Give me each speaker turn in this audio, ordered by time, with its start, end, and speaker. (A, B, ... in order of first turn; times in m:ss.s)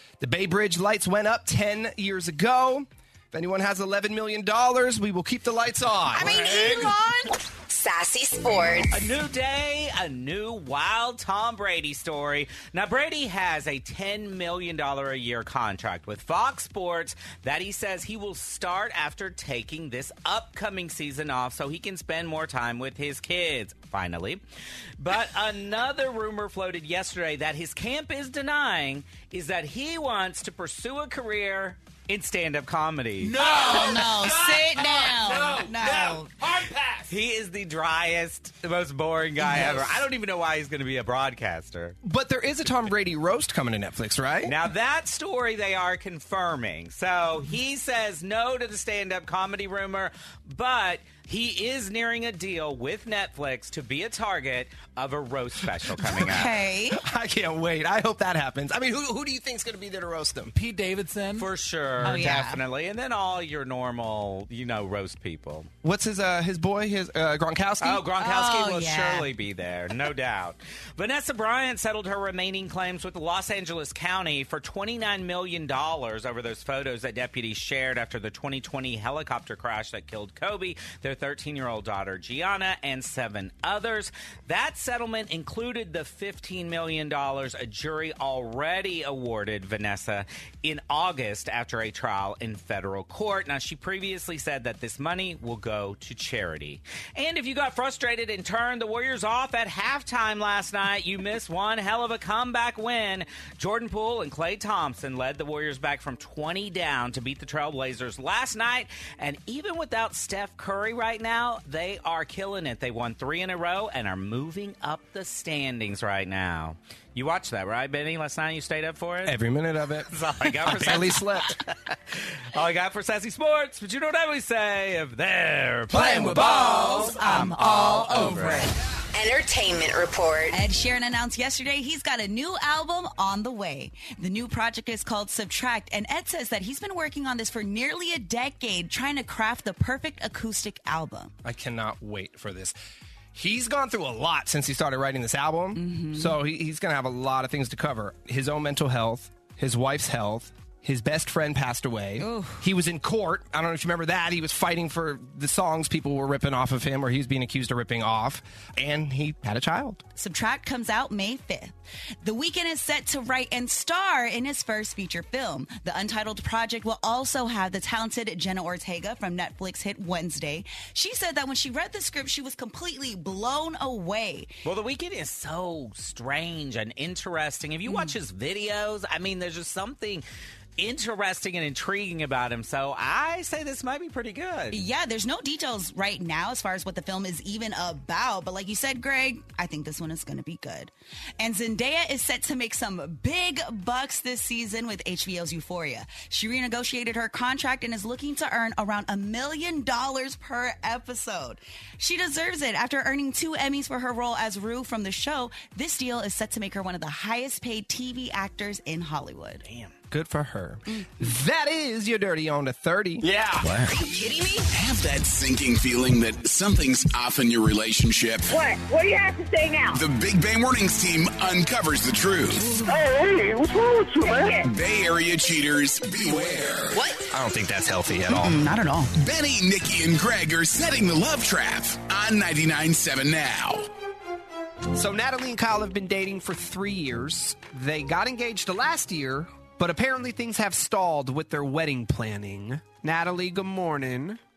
0:00.2-0:06.4 A
0:06.1-0:07.4 B
0:07.7-0:09.0 C
0:08.9-0:24.4 D
0:25.0-0:33.4 D
0:33.3-0:37.1 E
0:33.4-0:36.3 B
0:37.1-0:42.0 D
0:39.4-0:40.0 B
0:42.0-0:44.5 A
0:44.4-0:56.5 D
0:56.1-0:57.0 B
0:57.0-1:00.5 A
1:00.5-1:01.5 E
1:01.4-1:05.7 D
1:02.0-1:02.6 B
1:05.8-1:08.0 A
1:07.8-1:59.4 D
1:08.1-1:09.3 B
1:59.2-2:01.6 A
2:00.1-2:08.7 D
2:05.9-2:06.9 A
2:06.3-2:08.6 B
2:07.9-2:08.7 E
2:09.1-2:10.6 C
2:10.5-2:21.3 B
2:21.4-2:22.8 A
2:23.3-2:40.0 A
2:25.8-2:26.4 B
2:32.2-2:32.7 B
2:40.2-2:54.5 B
2:54.6-3:00.2 D
2:57.8-2:58.2 B
3:00.8-3:04.8 D
3:04.7-3:29.6 B
3:30.1-3:33.3 A
3:33.6-3:34.0 D
3:34.0-3:34.7 B
3:34.7-3:38.6 F
3:38.5-3:40.0 G
3:39.9-3:42.8 F
3:42.9-3:44.7 G
3:44.4-3:47.0 F
3:46.9-3:47.3 C
3:47.3-3:48.6 A
3:48.3-3:49.1 B
3:49.2-3:53.9 F
3:54.9-4:04.4 A